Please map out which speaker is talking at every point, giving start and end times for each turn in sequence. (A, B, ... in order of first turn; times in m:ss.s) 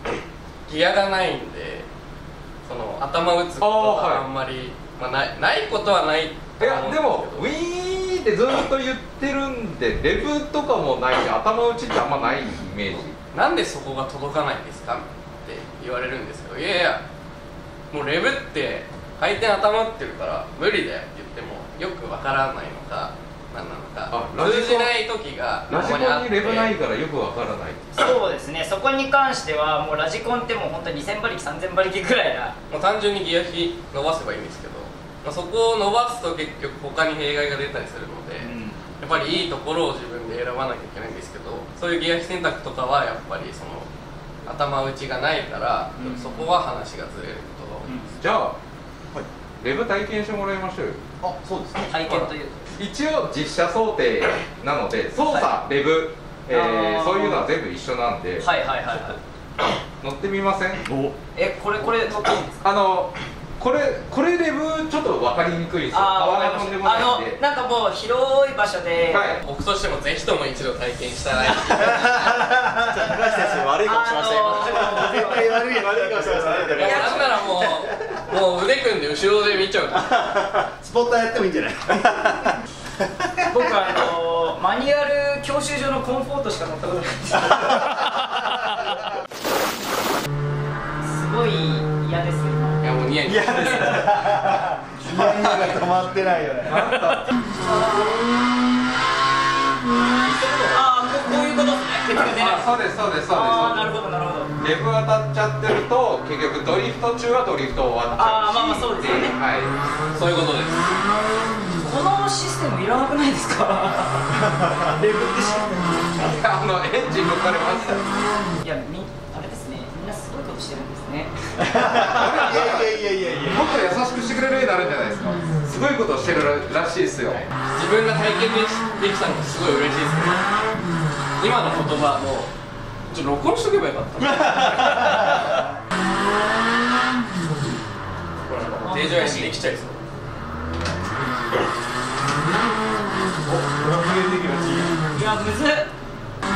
0:00.7-0:01.9 A
0:02.6-0:07.4 A
0:03.6-0:04.2 B
0:06.6-0:13.2 B
0:13.3-0:17.0 A
0:17.9-0:26.8 A
0:24.1-0:24.9 B
0:25.7-0:28.1 B
0:28.0-0:32.5 C
0:32.7-0:43.9 A
0:38.4-0:38.8 D
0:44.4-0:47.9 A
0:48.2-0:48.6 B
0:49.6-0:51.0 B
0:51.2-0:51.9 E
0:51.9-0:52.6 C
0:52.8-0:58.4 B
0:55.2-0:55.5 C
0:56.5-0:57.4 C
0:58.4-0:59.2 C
1:00.0-1:00.8 B
1:01.3-1:02.6 C
1:02.6-1:07.4 B
1:05.9-1:09.4 C
1:09.1-1:09.4 B
1:09.4-1:12.1 A
1:11.9-1:13.1 D
1:12.8-1:17.7 E
1:13.8-1:15.5 C
1:14.6-1:17.3 D
1:16.7-1:20.1 A
1:16.8-1:17.4 C
1:20.1-1:22.6 D
1:23.5-1:28.0 C
1:31.0-1:32.8 C
1:32.8-1:34.1 A
1:33.2-1:37.0 D
1:36.6-1:37.3 B
1:40.3-1:40.7 E
1:40.7-1:42.8 C
1:42.3-1:43.9 B
1:43.3-1:44.5 C
1:44.6-1:49.7 B
1:48.2-1:49.4 C
1:50.1-1:50.8 A
1:51.8-1:56.1 C
1:56.2-1:58.0 B
1:58.6-2:01.3 C
2:01.6-2:03.7 D
2:01.7-2:07.5 B
2:07.7-2:10.5 A
2:11.4-2:12.5 A
2:13.1-2:15.6 A
2:18.5-2:20.0 A
2:18.8-2:19.5 C
2:23.5-2:24.9 D
2:25.2-2:25.9 C